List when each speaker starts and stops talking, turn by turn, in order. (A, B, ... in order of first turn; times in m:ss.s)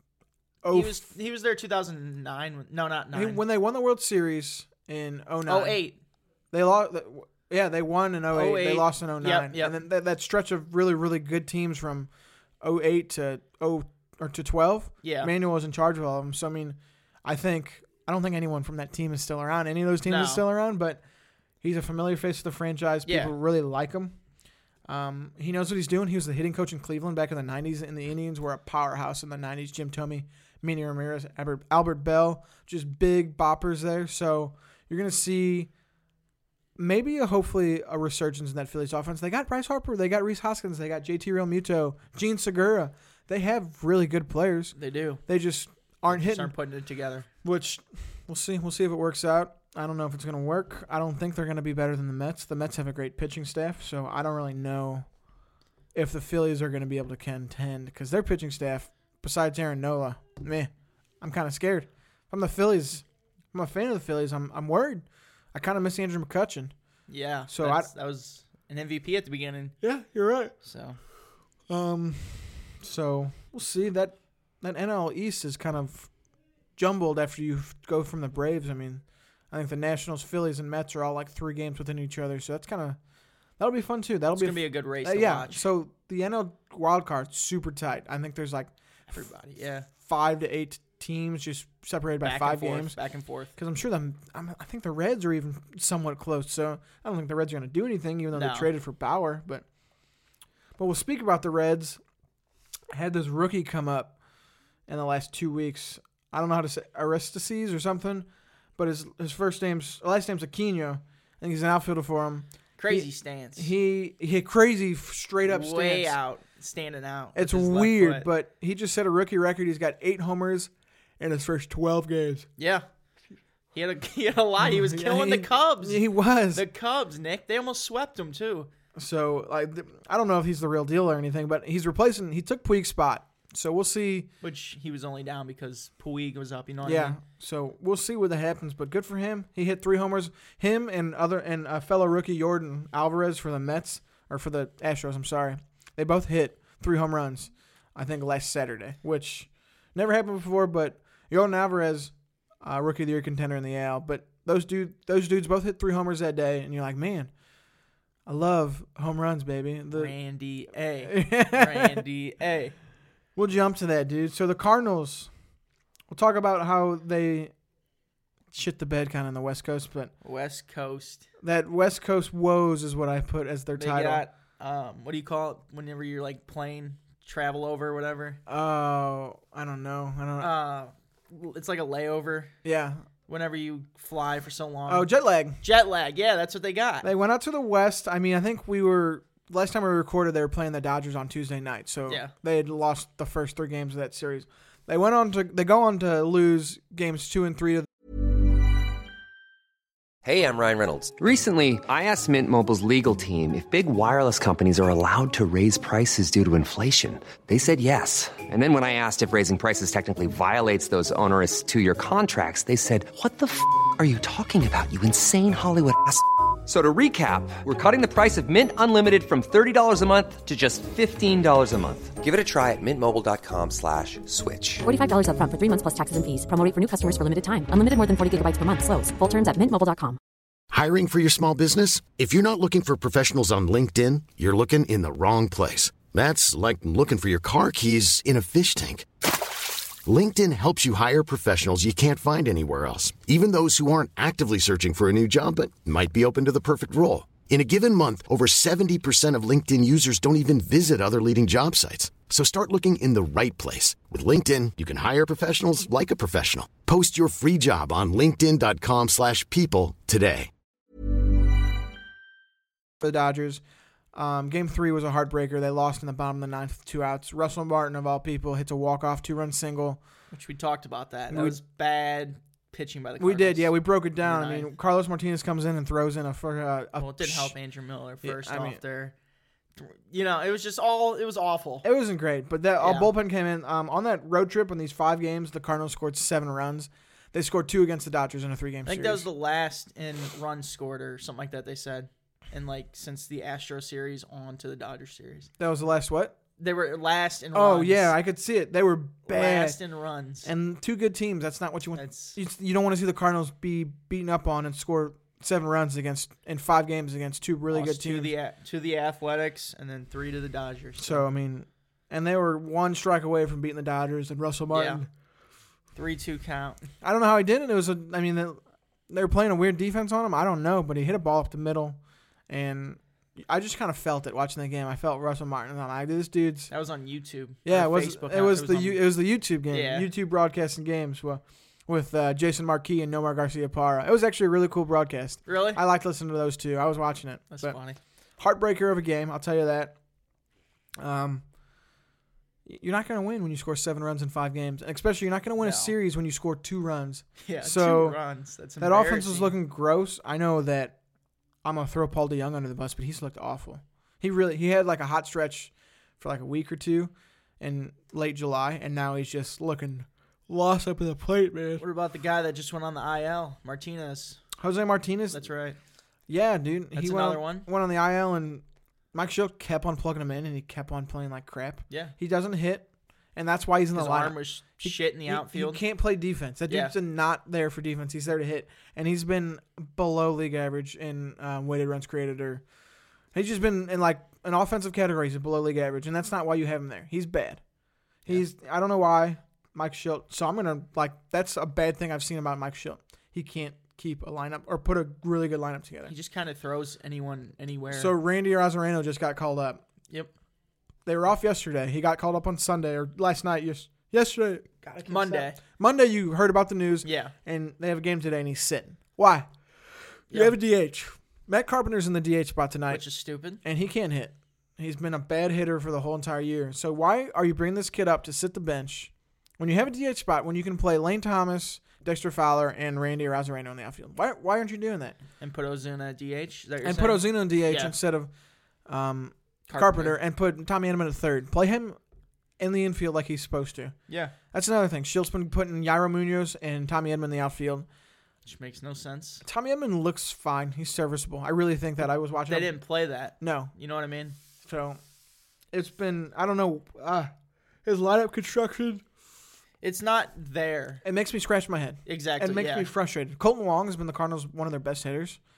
0:00.6-0:01.0 A
0:00.7-0:03.4 B
0:03.1-0:05.8 A
0:05.5-0:06.0 B
0:06.5-0:12.1 A
0:08.3-0:09.8 B
0:12.6-0:21.0 A
0:15.0-0:15.3 B
0:20.0-0:20.4 B
0:21.6-0:24.2 A
0:23.1-0:23.3 B
0:24.9-0:35.7 A
0:36.8-0:44.8 A
0:44.8-0:45.2 B
0:45.3-0:46.5 A
0:46.1-0:47.3 B
0:47.4-0:55.1 A
0:55.9-1:00.7 A
1:01.2-1:06.7 A
1:07.1-1:09.8 B
1:07.5-1:07.9 A
1:09.8-1:10.5 A
1:10.6-1:11.0 B
1:11.7-1:16.1 A
1:16.8-1:23.0 A
1:23.6-1:28.7 A
1:24.4-1:25.6 B
1:29.1-1:29.9 B
1:30.0-1:33.0 A
1:32.2-1:33.5 B
1:33.6-1:39.6 A
1:38.3-1:38.7 B
1:40.8-1:42.0 A
1:42.9-1:44.2 A
1:44.9-1:56.2 A
1:52.8-1:53.7 B
1:55.4-1:58.3 B
1:57.4-2:02.5 A
2:02.6-2:02.8 B
2:03.7-2:08.7 B
2:04.6-2:06.6 A
2:09.0-2:14.3 A
2:14.4-2:17.2 B
2:16.8-2:37.3 A
2:38.3-2:40.1 A
2:39.9-2:42.8 B
2:41.0-2:42.0 A
2:43.4-2:45.3 A
2:46.1-2:47.5 A
2:48.5-2:50.1 A
2:50.2-2:51.3 B
2:51.4-2:54.2 A
2:53.8-2:58.4 B
2:58.5-3:00.5 A
3:00.4-3:02.5 B
3:02.6-3:03.0 A
3:03.3-3:05.1 B
3:04.9-3:05.6 A
3:05.6-3:07.1 B
3:07.0-3:17.9 A
3:12.1-3:12.3 B
3:20.2-3:44.8 C
3:44.8-3:50.2 D
3:50.7-3:59.3 E
4:00.0-4:20.5 E
4:23.0-4:23.6 A
4:24.1-4:30.0 A
4:30.3-4:34.7 B
4:31.3-4:31.6 A
4:33.2-4:37.6 A
4:37.0-4:39.1 B
4:38.2-4:38.8 A
4:39.8-4:41.9 B
4:41.8-4:49.3 A
4:42.8-4:43.1 B
4:48.9-4:55.5 B
4:55.6-4:56.4 A
4:56.6-4:58.2 B
4:57.5-4:59.8 A
4:59.3-5:00.5 B
5:00.4-5:08.4 A
5:02.0-5:02.4 B
5:07.7-5:11.2 B
5:11.0-5:15.1 A
5:14.7-5:15.0 B
5:16.0-5:16.8 B
5:17.0-5:26.7 A
5:26.7-5:29.2 B
5:27.6-5:37.8 A
5:29.7-5:30.1 B
5:35.5-5:35.8 B
5:37.5-5:38.0 B
5:38.4-5:40.0 A
5:41.0-5:41.4 A
5:42.7-5:48.2 A
5:45.6-5:45.9 B
5:47.4-5:49.6 B
5:48.8-5:51.0 A
5:51.6-6:01.8 A
6:01.8-6:04.4 B
6:04.6-6:05.5 A
6:05.3-6:05.8 B
6:06.3-6:22.6 A
6:07.0-6:07.7 B
6:11.9-6:12.2 B
6:14.0-6:15.8 B
6:16.7-6:17.0 B
6:23.3-6:27.6 A
6:28.2-6:36.1 A
6:36.1-6:38.1 B
6:37.9-6:39.8 A
6:41.1-6:49.5 A
6:45.0-6:45.6 B
6:47.0-6:47.3 B
6:50.3-6:53.0 A
6:52.9-6:53.6 B
6:53.6-7:05.2 A
7:05.4-7:08.0 B
7:06.8-7:08.3 A
7:08.9-7:12.0 A
7:09.7-7:10.2 B
7:12.6-7:14.0 A
7:14.1-7:14.4 B
7:14.5-7:17.9 A
7:18.5-7:19.4 B
7:19.4-7:22.8 A
7:22.5-7:24.4 B
7:23.4-7:23.7 A
7:24.6-7:25.0 A
7:25.7-7:27.3 A
7:27.8-7:29.0 A
7:29.8-7:31.0 B
7:31.0-7:35.4 A
7:32.1-7:32.9 B